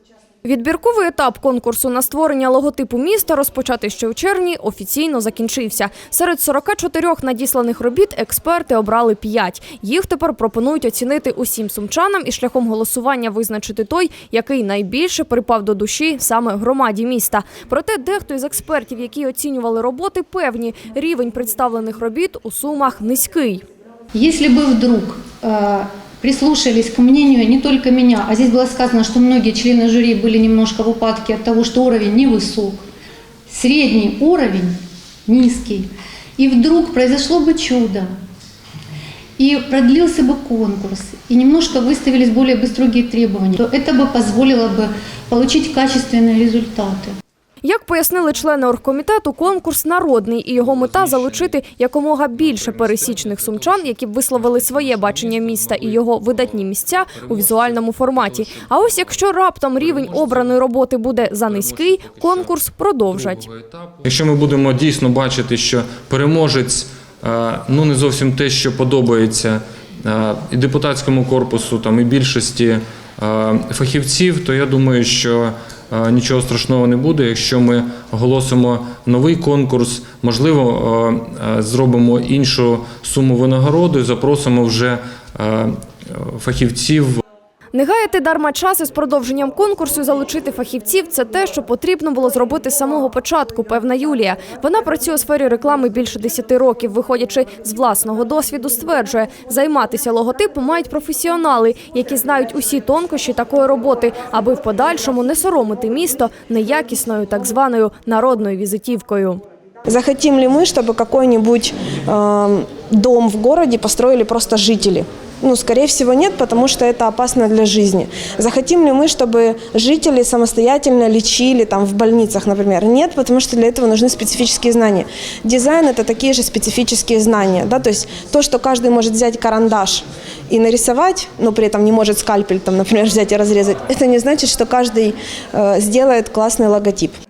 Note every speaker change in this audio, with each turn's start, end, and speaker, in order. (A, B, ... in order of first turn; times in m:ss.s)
0:00.4-0:23.6 A
0:24.1-0:32.8 B
0:33.5-0:38.1 B
0:39.4-0:47.2 B
0:47.6-1:03.4 A
0:50.8-0:51.3 C
0:52.5-0:53.9 C
0:54.4-0:56.2 C
0:57.3-0:59.0 C
0:59.8-1:00.4 C
1:01.5-1:02.5 C
1:03.1-1:27.2 C
1:27.7-1:49.4 A
1:49.9-2:17.1 D